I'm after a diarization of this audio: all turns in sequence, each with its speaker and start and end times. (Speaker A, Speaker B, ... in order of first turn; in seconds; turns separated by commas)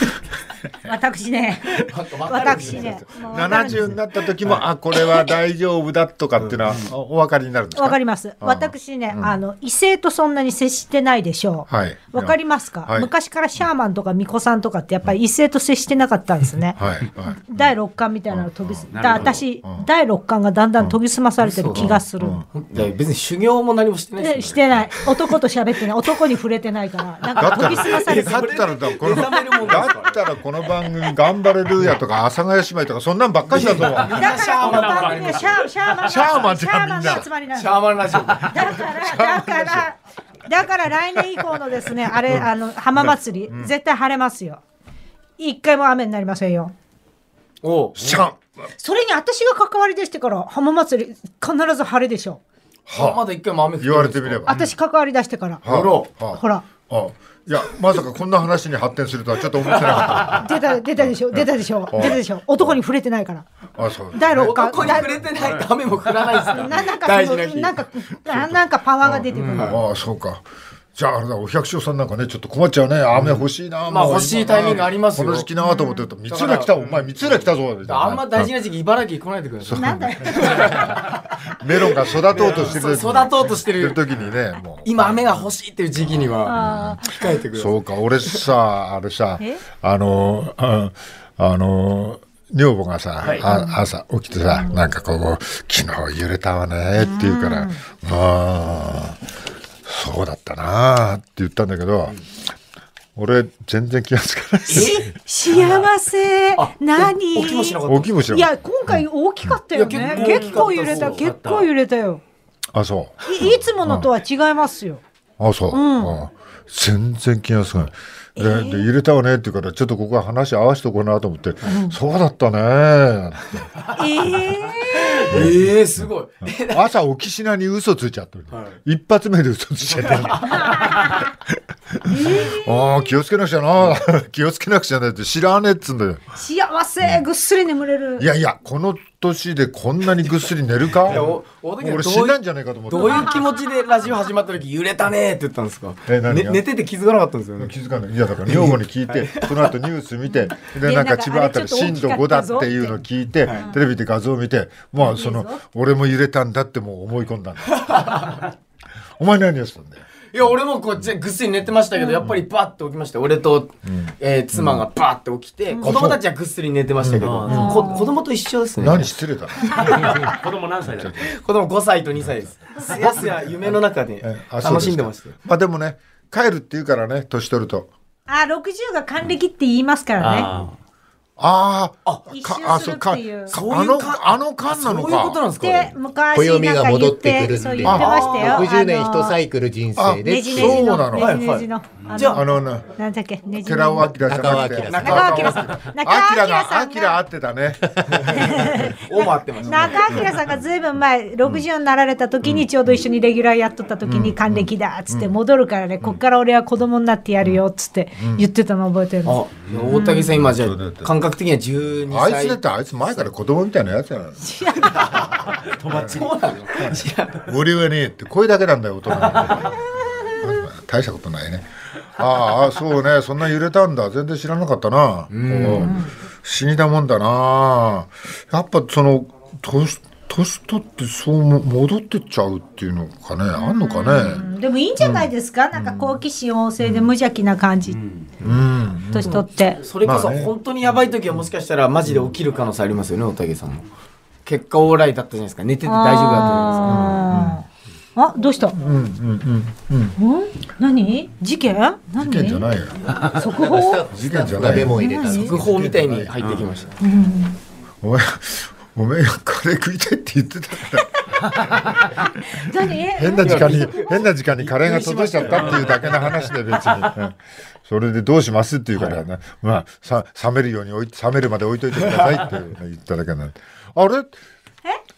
Speaker A: 0.8-3.9, Speaker B: 1.9-3.1, Speaker C: 2.8-9.3, Speaker A: 7.8-16.8, Speaker C: 11.7-13.1, Speaker C: 16.8-17.8, Speaker A: 17.3-22.4, Speaker C: 18.3-19.9, Speaker D: 18.9-19.4, Speaker B: 21.4-21.9, Speaker C: 21.7-22.5, Speaker B: 22.5-24.6, Speaker A: 24.2-28.5, Speaker C: 27.4-34.3, Speaker B: 27.4-30.2, Speaker A: 29.1-29.8, Speaker B: 33.5-35.6, Speaker A: 34.1-44.6, Speaker D: 34.2-36.1, Speaker C: 36.0-37.3, Speaker B: 37.5-38.8, Speaker C: 38.9-39.9, Speaker C: 42.2-43.7, Speaker A: 45.4-46.7, Speaker B: 47.6-48.2, Speaker C: 48.0-48.7, Speaker A: 48.8-52.4, Speaker C: 52.9-53.2, Speaker B: 52.9-54.5, Speaker C: 53.8-54.7, Speaker A: 54.5-55.6, Speaker C: 55.6-62.8, Speaker B: 55.7-56.1, Speaker A: 56.3-56.6, Speaker B: 59.7-60.2, Speaker A: 60.3-63.5, Speaker C: 63.8-65.0, Speaker A: 64.1-65.2, Speaker B: 64.3-68.5, Speaker D: 65.4-65.7, Speaker A: 66.5-69.8, Speaker C: 69.0-70.4, Speaker B: 69.3-69.8, Speaker C: 70.9-78.5, Speaker B: 73.8-75.5, Speaker A: 75.6-76.1, Speaker B: 76.3-76.7, Speaker B: 77.8-81.2, Speaker C: 79.6-99.2, Speaker A: 79.8-80.8, Speaker B: 81.9-84.0, Speaker D: 82.3-82.8, Speaker B: 84.8-88.4, Speaker A: 86.4-87.4, Speaker A: 93.4-93.8, Speaker A: 97.0-97.8, Speaker C: 99.8-102.3, Speaker C: 103.1-105.1, Speaker B: 104.7-105.1, Speaker A: 104.7-112.2, Speaker B: 106.5-108.1, Speaker C: 107.8-109.5, Speaker B: 109.7-111.2, Speaker D: 109.9-111.7, Speaker C: 112.7-114.1, Speaker A: 113.2-115.0, Speaker C: 115.4-123.7, Speaker A: 115.7-116.2, Speaker A: 118.4-118.9, Speaker A: 121.6-121.9, Speaker A: 123.9-125.5, Speaker B: 125.2-126.8, Speaker C: 125.3-136.2, Speaker D: 129.8-131.2, Speaker A: 130.4-131.3, Speaker A: 132.1-133.1, Speaker A: 136.4-138.3, Speaker C: 138.2-143.3, Speaker B: 141.0-142.4, Speaker B: 142.9-147.8, Speaker A: 142.9-143.8, Speaker C: 146.1-146.6, Speaker C: 147.6-158.3, Speaker B: 148.4-149.7, Speaker A: 150.6-153.8, Speaker B: 153.4-153.7, Speaker A: 155.0-155.6, Speaker B: 157.7-158.3, Speaker C: 159.2-160.1, Speaker B: 160.3-169.1, Speaker A: 161.9-162.2, Speaker C: 163.9-164.9, Speaker C: 165.8-166.2, Speaker C: 167.0-167.5, Speaker D: 167.2-167.9, Speaker A: 167.4-168.1, Speaker C: 168.8-171.3, Speaker B: 169.7-170.3, Speaker D: 169.7-171.3, Speaker B: 171.2-175.3, Speaker C: 172.2-177.9, Speaker A: 178.3-180.5, Speaker D: 180.2-180.7, Speaker C: 181.4-185.4, Speaker A: 182.3-183.6, Speaker B: 183.5-185.9, Speaker A: 185.6-189.4, Speaker E: 186.3-190.8, Speaker C: 187.8-188.3, Speaker B: 187.9-188.8, Speaker C: 189.9-191.4, Speaker A: 190.2-194.1, Speaker B: 191.1-192.4, Speaker C: 192.2-192.9, Speaker C: 193.6-198.9, Speaker E: 194.2-195.3, Speaker A: 194.9-197.2, Speaker B: 194.9-195.7, Speaker B: 198.1-200.1, Speaker A: 198.3-210.3, Speaker C: 199.7-200.4, Speaker C: 202.4-202.9, Speaker C: 204.1-205.4, Speaker C: 208.2-208.5, Speaker B: 209.2-212.6, Speaker C: 209.9-211.1, Speaker C: 212.1-214.8, Speaker A: 214.4-215.1, Speaker B: 215.0-215.2, Speaker D: 215.2-216.3, Speaker C: 215.9-234.5, Speaker B: 216.1-217.5, Speaker A: 220.0-220.5, Speaker B: 225.3-226.1, Speaker A: 225.7-226.1, Speaker A: 233.6-238.0, Speaker C: 235.0-236.2, Speaker C: 236.8-237.1, Speaker D: 237.9-238.3, Speaker C: 238.4-239.4, Speaker A: 239.1-239.8, Speaker B: 239.2-243.8, Speaker C: 240.0-240.6, Speaker B: 244.4-247.2, Speaker A: 245.8-247.6, Speaker C: 246.9-247.6, Speaker A: 248.2-248.8, Speaker C: 248.8-250.2, Speaker A: 250.2-252.7, Speaker C: 252.2-253.0, Speaker D: 253.1-253.3, Speaker A: 253.3-254.1, Speaker E: 253.4-255.6, Speaker C: 254.1-256.6, Speaker A: 254.8-255.6, Speaker B: 255.4-256.9, Speaker D: 256.4-256.7, Speaker A: 257.0-257.6, Speaker C: 258.0-274.4, Speaker D: 261.6-261.9, Speaker A: 262.1-264.2, Speaker B: 263.4-266.4, Speaker D: 265.5-266.0